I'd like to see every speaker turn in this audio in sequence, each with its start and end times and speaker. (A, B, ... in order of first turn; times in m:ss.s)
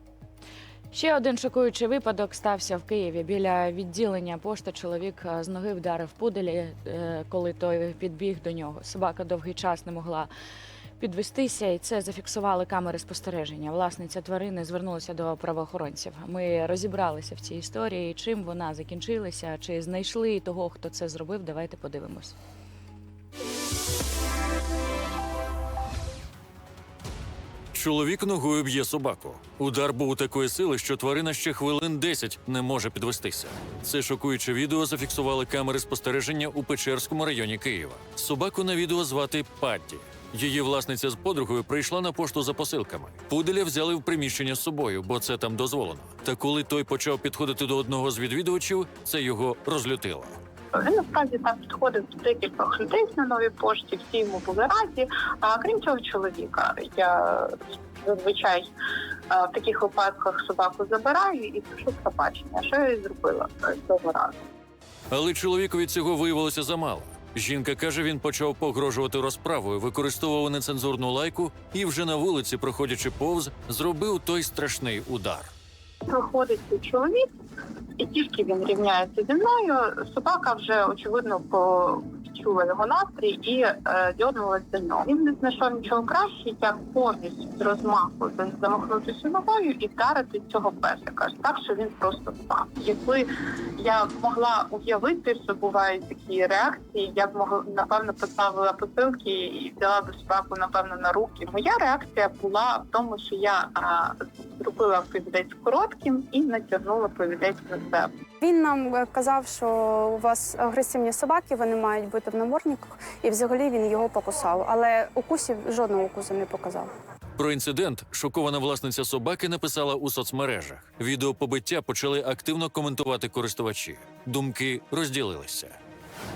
0:00.9-0:10.3 A
0:11.0-0:22.4 A
0:27.7-0:50.4 B
0:50.7-0:58.7 C
0:59.3-1:04.4 C
1:05.1-1:15.5 B
1:16.0-1:17.3 C
1:18.0-1:48.1 C
1:48.4-1:56.9 D
1:57.4-2:05.8 B